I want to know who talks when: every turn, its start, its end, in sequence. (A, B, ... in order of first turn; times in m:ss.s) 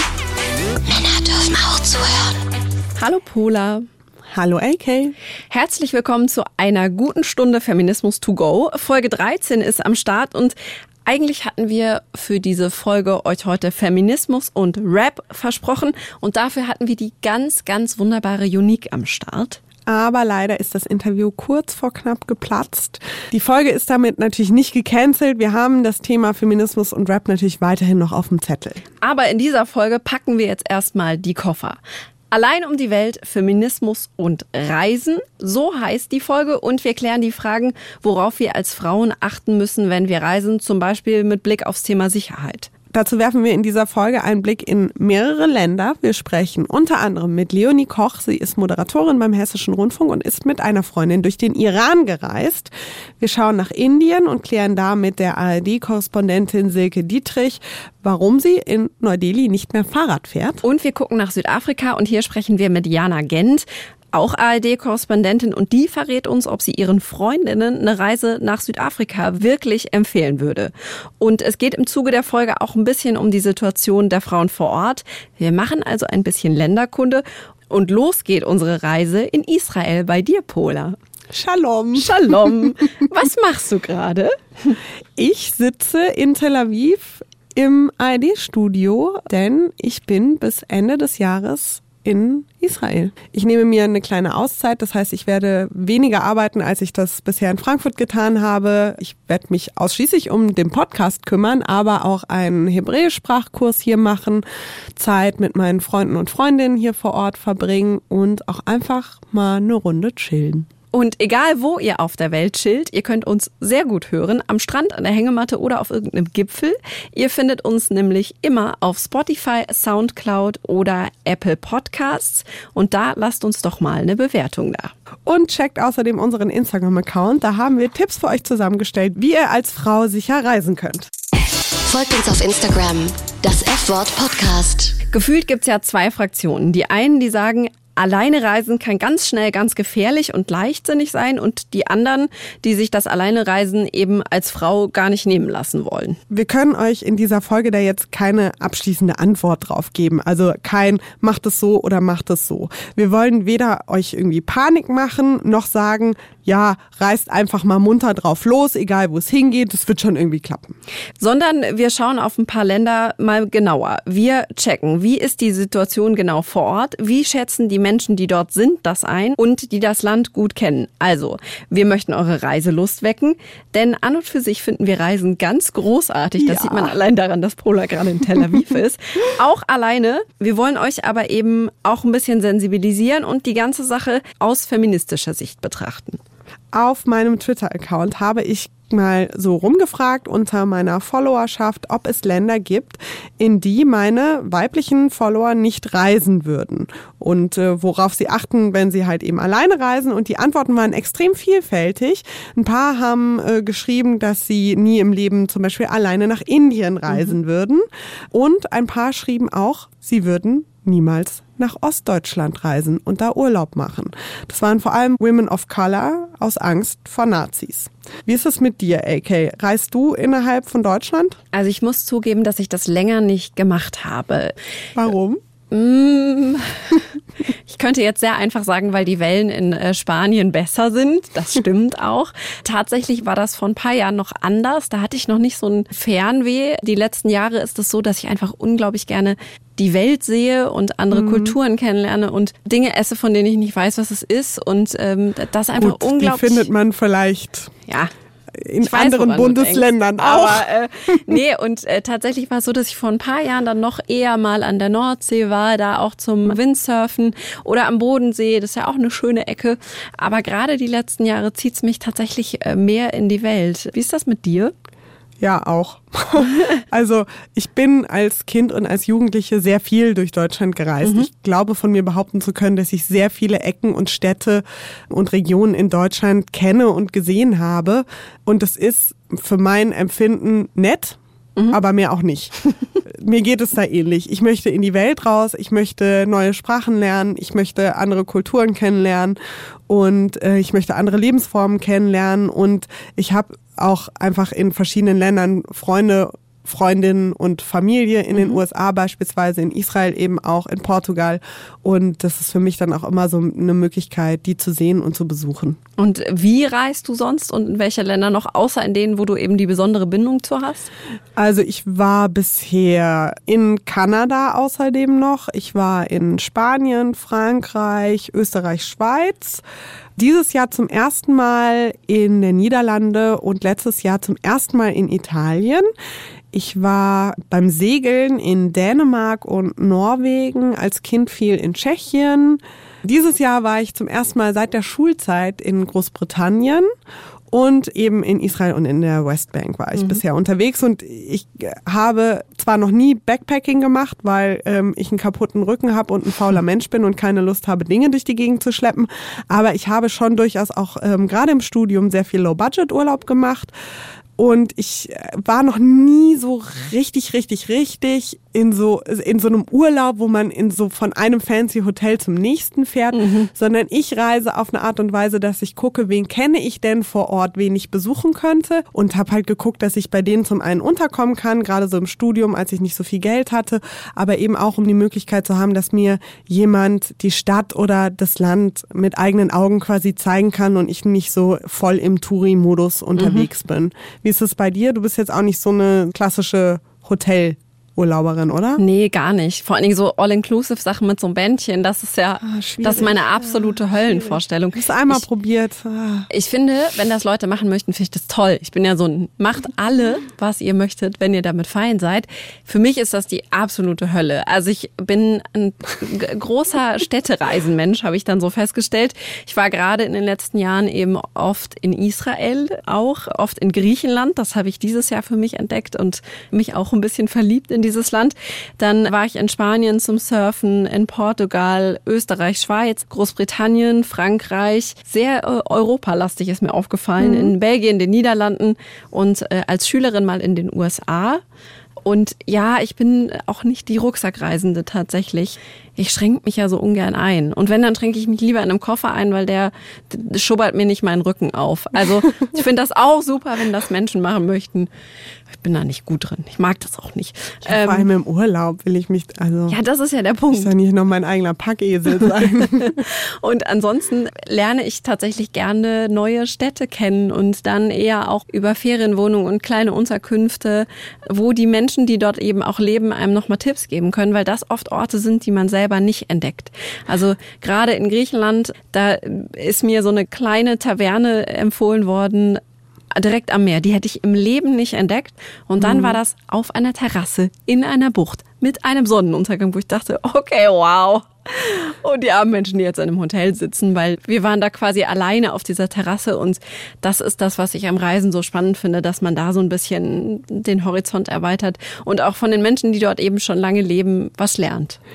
0:00.9-0:02.4 A
0:03.0-0:03.9 B
0:04.3-0:05.2 C
0:05.5-0:10.6 B
0:11.1-0:19.6 B
0:19.9-0:28.8 C
0:29.0-0:31.8 B
0:32.3-0:42.7 B
0:42.9-1:00.6 C
1:00.6-1:21.0 B
1:21.3-1:22.5 C
1:22.0-1:24.8 B
1:25.2-1:44.4 C
1:45.0-1:50.7 C
1:50.9-2:04.9 B
2:05.3-2:11.1 C
2:11.8-2:15.0 A
2:15.1-2:26.2 B
2:26.3-2:40.8 C
2:41.2-3:06.2 B
2:56.4-2:56.9 C
3:06.7-3:41.4 C
3:41.5-3:44.5 B
3:45.0-3:45.4 C
3:45.7-3:47.0 B
3:47.7-4:06.7 B
4:01.1-4:01.6 C
4:05.8-4:07.7 C
4:08.6-4:10.7 C
4:08.8-4:24.7 B
4:25.4-4:41.2 C
4:41.7-4:42.6 C
4:43.1-4:49.4 C
4:49.9-5:05.8 C
5:06.0-5:10.9 B
5:11.4-5:19.6 C
5:20.2-5:25.9 C
5:26.5-5:36.9 C
5:37.5-5:53.7 C
5:54.4-6:28.8 C
6:03.1-6:03.5 B
6:23.2-6:23.5 B
6:28.8-6:35.2 B
6:32.4-6:36.3 C
6:36.3-7:11.4 B
7:07.2-7:07.5 C
7:12.0-7:24.9 B
7:25.5-7:28.1 B
7:27.7-7:29.8 C
7:29.7-7:30.7 B
7:30.5-7:33.0 C
7:32.4-7:52.6 B
7:53.1-8:15.0 B
7:55.8-7:56.2 C